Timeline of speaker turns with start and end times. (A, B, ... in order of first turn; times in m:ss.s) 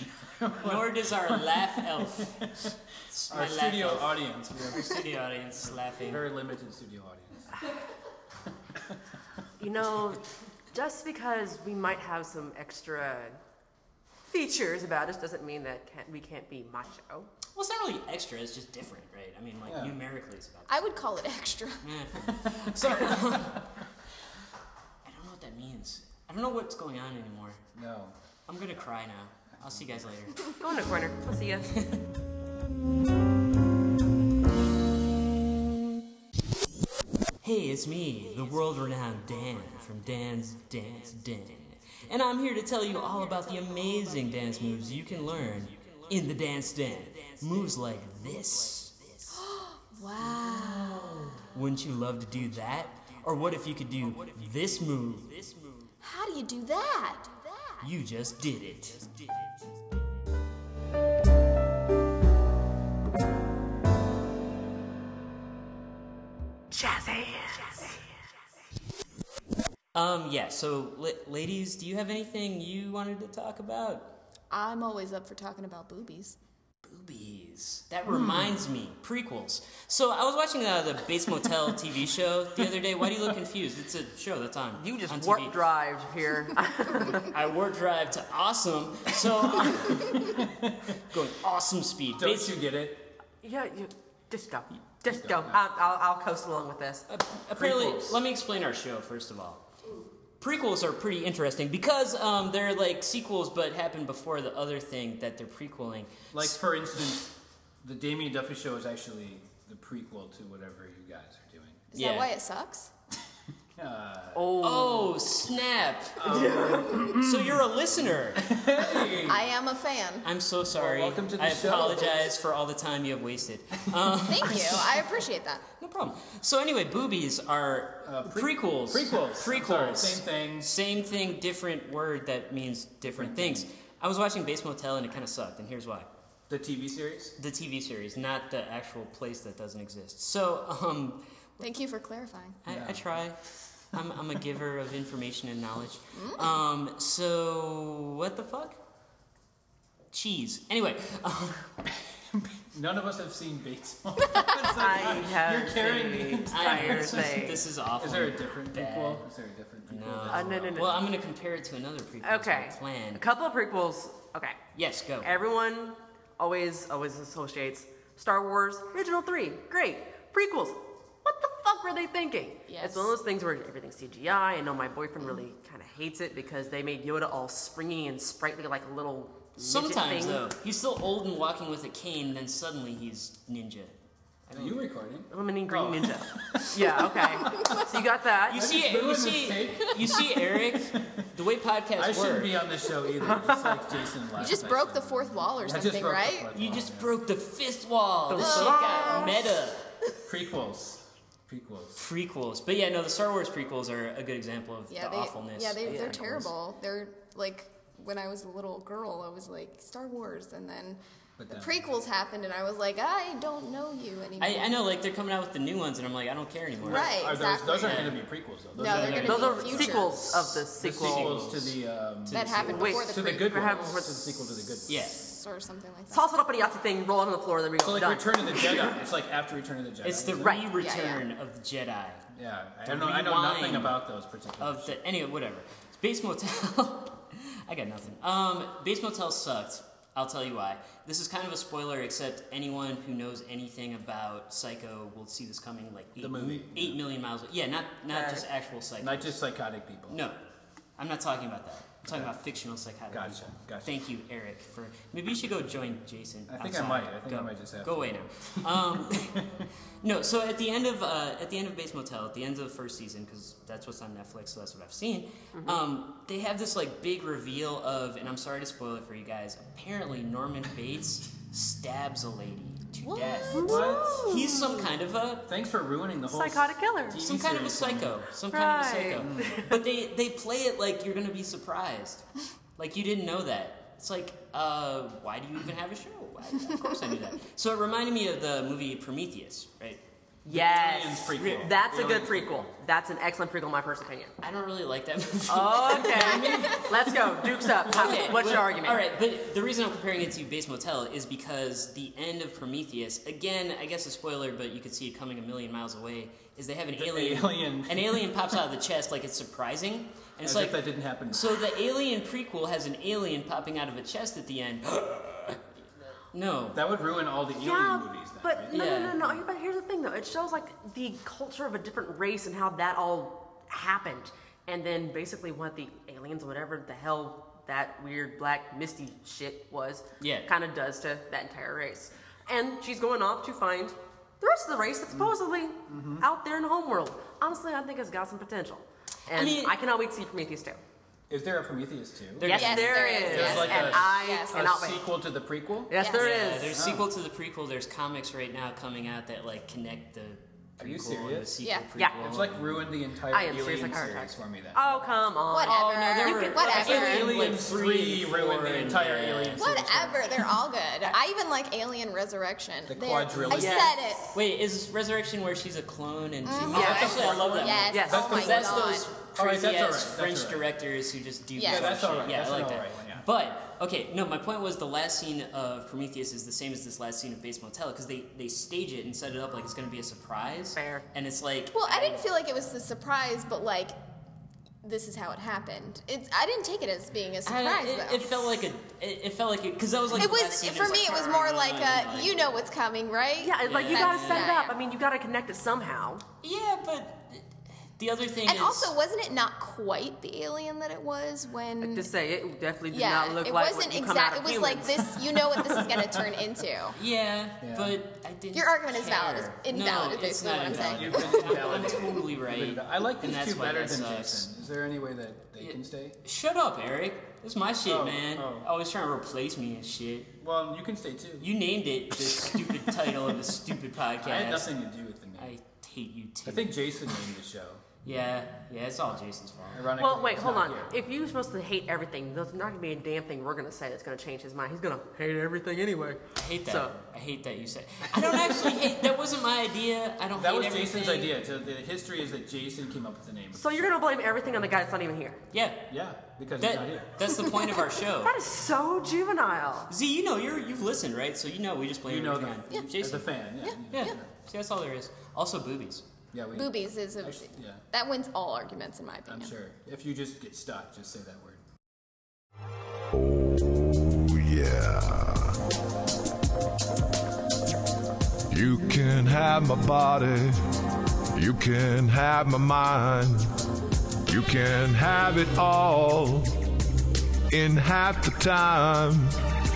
0:00.2-0:02.7 A
0:00.6-0:02.5 B
0:03.1-0:06.3 B
0:03.3-0:05.0 A
0:05.6-0:07.5 A
0:09.6-0:13.4 C
0:14.3-0:17.3 C
0:17.5-0:20.9 B
0:19.6-0:20.0 A
0:20.7-0:21.8 D
0:21.8-0:23.6 B
0:22.4-0:23.1 A
0:25.0-0:27.6 B
0:27.8-0:28.2 A
0:28.5-0:30.5 B
0:30.6-0:31.7 C
0:37.4-0:49.4 B
0:49.3-0:51.4 D
0:50.2-0:55.9 B
0:56.0-0:57.9 D
0:57.8-0:59.4 B
1:06.7-1:08.0 C
1:09.9-1:14.1 B
1:14.5-1:16.4 D
1:16.8-1:25.6 B
1:24.8-1:27.3 C
1:27.2-1:30.4 B
1:30.4-1:30.9 A
1:31.0-1:32.6 B
1:32.2-1:33.1 A
1:33.4-1:37.0 C
1:35.1-1:35.6 A
1:37.1-1:39.6 B
1:37.6-1:38.2 A
1:40.4-1:46.6 B
1:46.3-1:51.9 A
1:51.9-1:52.9 D
1:51.9-1:52.3 B
1:53.8-1:54.6 A
1:54.4-1:55.2 C
1:54.6-1:58.4 B
1:56.2-1:59.5 A
1:56.3-1:56.7 C
1:59.1-2:00.3 D
2:00.2-2:05.0 B
2:00.8-2:02.3 A
2:04.3-2:05.6 D
2:05.8-2:16.1 B
2:08.0-2:10.7 A
2:13.0-2:13.6 A
2:16.5-2:17.3 A
2:17.4-2:21.2 B
2:21.6-2:22.6 D
2:22.6-2:23.4 B
2:22.7-2:23.2 A
2:23.9-2:28.8 B
2:26.1-2:26.6 D
2:30.1-2:31.7 B
2:31.9-2:41.0 A
2:34.7-2:37.7 C
2:36.5-2:39.3 B
2:39.9-2:43.2 B
2:40.3-2:41.1 C
2:42.2-2:44.6 C
2:44.7-2:45.3 B
2:45.2-3:00.5 C
2:52.7-2:53.2 D
2:59.6-3:04.0 B
3:04.5-3:04.8 B
3:04.5-3:07.8 A
3:05.3-3:08.7 C
3:08.5-3:12.7 B
3:08.6-3:10.2 A
3:10.7-3:11.0 A
3:12.0-3:17.1 A
3:14.3-3:16.5 D
3:16.5-3:19.9 B
3:18.3-3:19.3 C
3:18.4-3:19.5 D
3:20.3-3:22.0 A
3:22.0-3:26.5 B
3:24.9-3:34.8 D
3:25.8-3:26.3 C
3:31.4-3:31.8 A
3:34.4-3:37.2 B
3:36.8-3:40.1 A
3:36.8-3:40.2 D
3:37.8-3:38.1 B
3:38.8-3:43.0 B
3:39.2-3:41.4 C
3:40.8-3:45.1 A
3:42.3-3:43.8 D
3:42.6-3:44.4 C
3:44.8-3:46.3 D
3:44.9-3:45.2 B
3:46.1-3:49.0 C
3:47.8-3:50.6 A
3:50.0-3:52.2 B
3:50.4-3:50.7 C
3:50.7-3:51.2 D
3:52.3-3:55.0 A
3:52.9-3:54.0 B
3:54.6-4:09.3 B
4:06.2-4:07.0 A
4:08.1-4:08.4 C
4:09.0-4:10.2 A
4:10.1-4:10.4 B
4:11.0-4:19.4 B
4:12.1-4:12.4 A
4:13.1-4:14.0 A
4:16.5-4:18.2 A
4:20.0-4:35.5 B
4:33.1-4:33.8 D
4:33.5-4:34.8 C
4:33.6-4:34.3 A
4:35.5-4:38.2 A
4:36.3-4:37.2 C
4:37.2-4:42.2 B
4:38.5-4:39.7 C
4:39.2-4:39.6 A
4:42.8-4:50.0 B
4:50.4-4:54.3 C
4:50.5-4:52.7 A
4:51.4-4:51.7 B
4:54.4-4:56.9 B
4:55.5-4:59.1 C
4:56.3-4:58.5 A
4:57.9-5:10.8 B
5:07.0-5:08.4 A
5:10.4-5:11.6 A
5:11.3-5:15.6 B
5:16.3-5:16.8 B
5:16.7-5:19.3 A
5:17.5-5:40.8 C
5:18.7-5:19.3 B
5:30.2-5:30.5 B
5:35.1-5:35.4 A
5:35.9-5:36.3 A
5:39.4-5:39.8 B
5:41.3-5:46.0 A
5:42.4-5:44.0 B
5:42.4-5:45.1 C
5:42.4-5:44.7 D
5:45.9-5:46.7 C
5:46.0-5:46.4 D
5:46.1-5:52.8 B
5:46.6-5:47.1 A
5:50.8-5:51.6 A
5:51.6-5:51.9 D
5:52.2-5:55.1 A
5:53.3-5:57.2 C
5:55.5-5:57.4 D
5:55.6-5:59.9 B
5:56.7-6:00.3 A
5:59.6-6:04.4 D
6:02.9-6:04.1 A
6:03.5-6:04.0 C
6:04.3-6:22.3 B
6:06.4-6:09.1 D
6:06.7-6:10.7 A
6:06.7-6:07.4 C
6:07.9-6:08.3 C
6:11.6-6:12.3 D
6:11.6-6:13.3 A
6:20.8-6:21.0 C
6:21.7-6:24.0 D
6:24.8-6:28.6 D
6:27.4-6:32.5 B
6:30.1-6:34.8 D
6:33.4-6:36.2 C
6:33.6-6:34.5 B
6:36.4-6:38.9 B
6:38.4-6:42.1 D
6:41.8-6:45.0 C
6:42.9-6:47.0 D
6:45.5-6:46.2 A
6:46.9-6:54.5 B
6:47.6-6:48.0 A
6:48.5-6:52.1 D
6:50.6-6:56.2 A
6:55.6-7:00.3 B
6:57.9-6:58.7 A
7:00.4-7:01.5 A
7:01.4-7:04.7 B
7:04.2-7:05.6 A
7:05.4-7:06.7 B
7:06.4-7:07.8 A
7:08.0-7:09.9 B
7:09.7-7:11.0 A
7:10.0-7:16.9 C
7:16.4-7:21.3 B
7:18.3-7:18.7 C
7:20.3-7:24.0 A
7:23.5-7:25.4 C
7:25.5-7:25.9 B
7:25.9-7:27.1 A
7:26.6-7:28.4 B
7:28.2-7:29.9 C
7:29.9-7:33.3 B
7:32.0-7:34.3 A
7:33.6-7:34.2 D
7:33.9-7:36.0 B
7:36.3-7:37.8 A
7:36.5-7:39.6 D
7:39.3-7:41.6 A
7:43.1-7:45.5 E
7:48.5-7:50.6 E
7:51.4-7:53.5 E
7:54.3-7:56.5 E
7:57.5-7:59.3 E